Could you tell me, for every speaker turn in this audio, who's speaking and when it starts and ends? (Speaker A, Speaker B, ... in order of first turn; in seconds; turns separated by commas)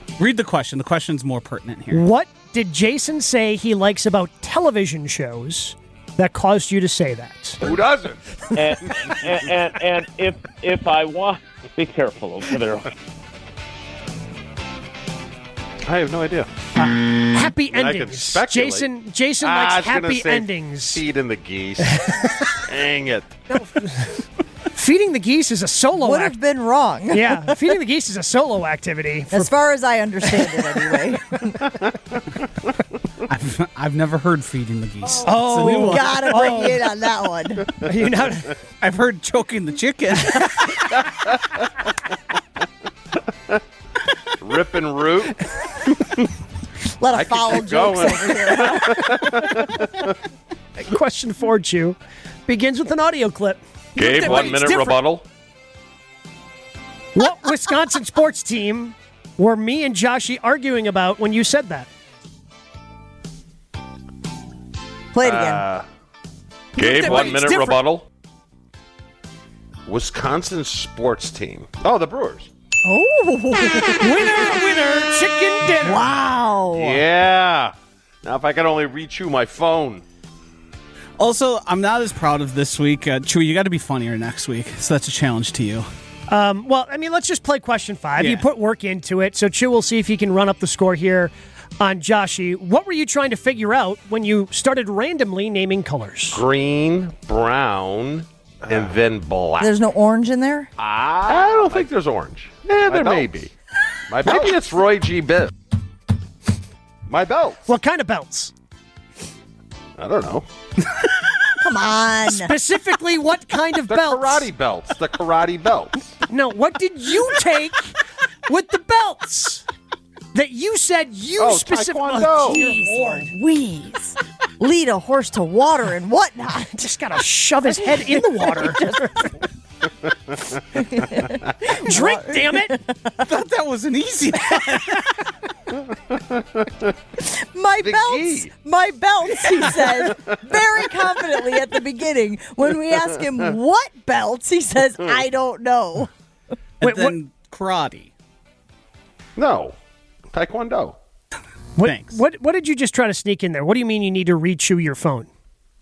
Speaker A: 0.2-2.0, Speaker B: 1.9-7.6, Speaker C: 7.6-9.1, Speaker D: 8.6-12.9, Speaker C: 15.8-16.5, Speaker B: 16.8-21.0, Speaker C: 17.7-18.9, Speaker C: 19.4-23.4, Speaker B: 21.9-22.3, Speaker B: 23.5-24.2, Speaker B: 24.7-26.4, Speaker E: 26.0-27.6, Speaker B: 27.1-29.5, Speaker E: 29.3-31.5, Speaker B: 30.2-31.4, Speaker A: 33.3-36.6, Speaker B: 35.2-36.8, Speaker E: 35.6-37.8, Speaker B: 37.8-38.5, Speaker A: 38.8-41.0, Speaker C: 40.9-41.6, Speaker C: 44.4-46.2, Speaker E: 47.0-49.4, Speaker C: 47.1-50.1, Speaker B: 50.8-55.0, Speaker C: 54.0-55.2, Speaker B: 57.1-61.9, Speaker E: 65.1-65.6, Speaker C: 65.2-65.9, Speaker B: 66.8-67.8, Speaker C: 66.8-68.1, Speaker C: 69.9-72.5, Speaker E: 72.8-74.3, Speaker B: 73.9-76.1, Speaker E: 75.8-77.0, Speaker C: 76.8-80.0, Speaker A: 81.2-85.9, Speaker B: 86.3-96.4, Speaker A: 88.2-88.5, Speaker C: 96.3-99.7, Speaker E: 99.6-100.7, Speaker C: 100.8-103.5, Speaker C: 104.1-105.5, Speaker E: 104.3-104.5, Speaker C: 107.1-107.6, Speaker B: 107.7-108.5, Speaker C: 110.0-110.5, Speaker E: 111.6-112.5, Speaker B: 112.3-114.5, Speaker C: 113.9-116.2, Speaker B: 116.3-118.0, Speaker B: 118.5-119.7, Speaker B: 120.3-123.3, Speaker C: 121.4-122.6, Speaker E: 122.5-126.9, Speaker B: 126.8-129.1, Speaker E: 127.9-129.3, Speaker E: 130.8-133.3, Speaker B: 131.8-132.8, Speaker A: 133.2-135.2, Speaker C: 136.1-136.9, Speaker E: 137.2-146.1, Speaker C: 137.8-138.5, Speaker C: 139.4-140.9, Speaker A: 146.8-148.1, Speaker B: 146.8-147.2, Speaker C: 149.4-149.8, Speaker C: 150.3-151.0, Speaker A: 151.8-152.2, Speaker B: 151.8-155.3